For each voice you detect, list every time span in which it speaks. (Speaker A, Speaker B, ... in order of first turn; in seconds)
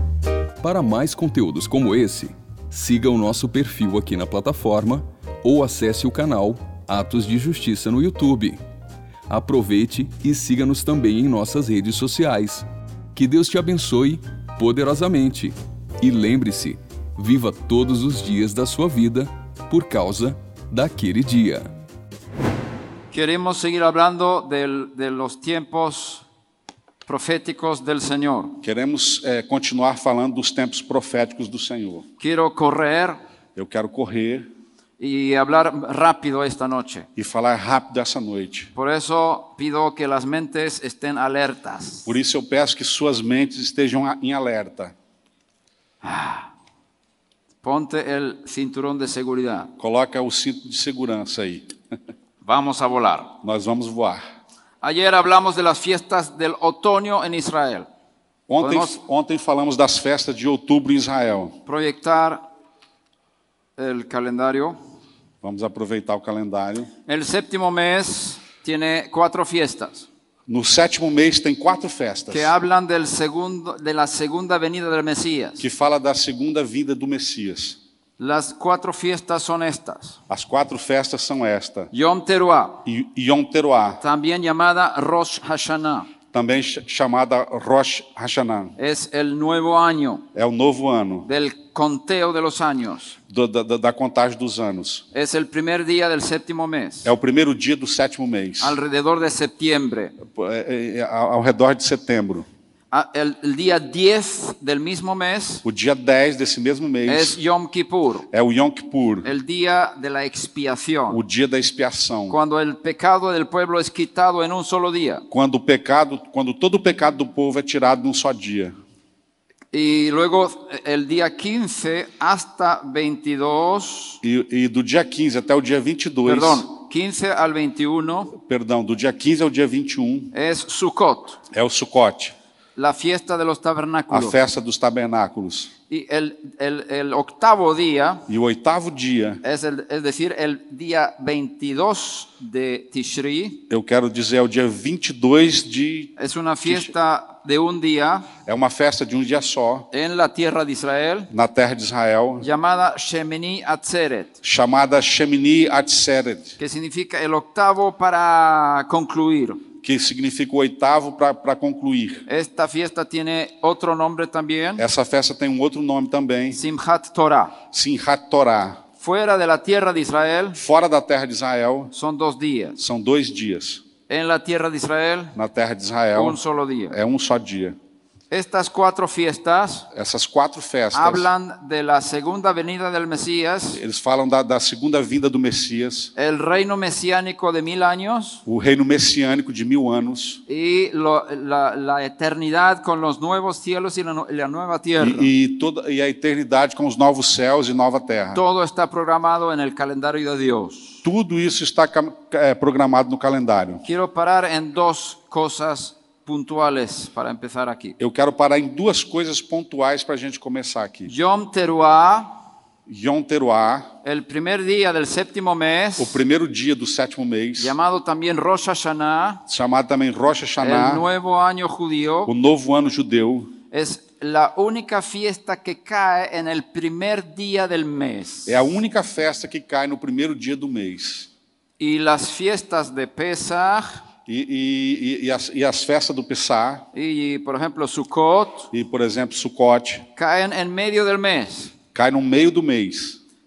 Speaker A: 0.6-8.6, 9.3-21.7
Speaker B: 23.1-26.2, 27.1-28.6, 32.2-33.2, 35.0-37.1, 38.7-42.1, 46.0-46.5, 47.6-49.7, 52.4-53.4, 54.8-57.9, 58.6-59.0, 61.6-62.5, 63.8-64.8, 67.0-70.1, 72.3-75.6, 78.2-80.2, 81.9-82.8, 84.0-86.1, 88.8-90.3, 91.2-93.2, 95.1-97.1, 98.6-100.2, 102.9-105.6, 107.0-108.3, 109.2-111.2, 112.3-115.2, 119.7-124.2, 126.2-128.3, 130.3-131.4, 132.8-134.4, 135.9-138.3, 139.4-143.6, 146.2-148.3, 149.9-151.3, 152.4-154.4, 156.6-159.6, 162.3-164.8, 166.5-167.6, 169.0-170.6, 171.9-172.8, 174.1-175.3, 176.1-176.9, 178.3-179.9, 180.9-183.8, 186.2-188.4, 190.5-195.3, 198.3-201.0, 203.8-208.0, 211.1-212.3, 214.0-216.2, 217.6-219.4, 220.6-222.3, 223.7-228.7, 231.8-234.0, 236.9-238.7, 240.2-241.7
Speaker C: 28.6-32.0, 33.5-34.5, 37.1-38.7, 42.0-44.9, 49.8-51.7, 53.4-54.2, 58.5-61.5, 65.4-66.9, 70.5-72.5, 75.6-77.8, 80.3-81.9, 82.8-84.0, 86.3-88.8, 90.3-91.3, 93.3-95.0, 97.0-98.8, 100.2-102.5, 105.6-107.4, 108.3-109.3, 111.1-112.4, 115.3-118.7, 124.2-126.7, 128.3-130.3, 131.5-132.3, 134.1-135.7, 138.3-139.4, 143.7-146.1, 146.6-146.9, 148.4-149.9, 151.3-152.5, 154.4-156.5, 159.8-162.2, 164.8-166.6, 167.7-168.8, 170.5-171.9, 172.8-173.8, 175.3-176.4, 176.9-177.8, 179.9-181.3, 183.7-186.1, 188.4-190.4, 195.0-198.4, 201.0-203.8, 208.0-211.1, 212.8-213.9, 216.0-217.7, 219.5-221.1, 222.3-223.5, 228.4-231.3, 234.2-236.9, 238.7-240.1, 241.9-243.2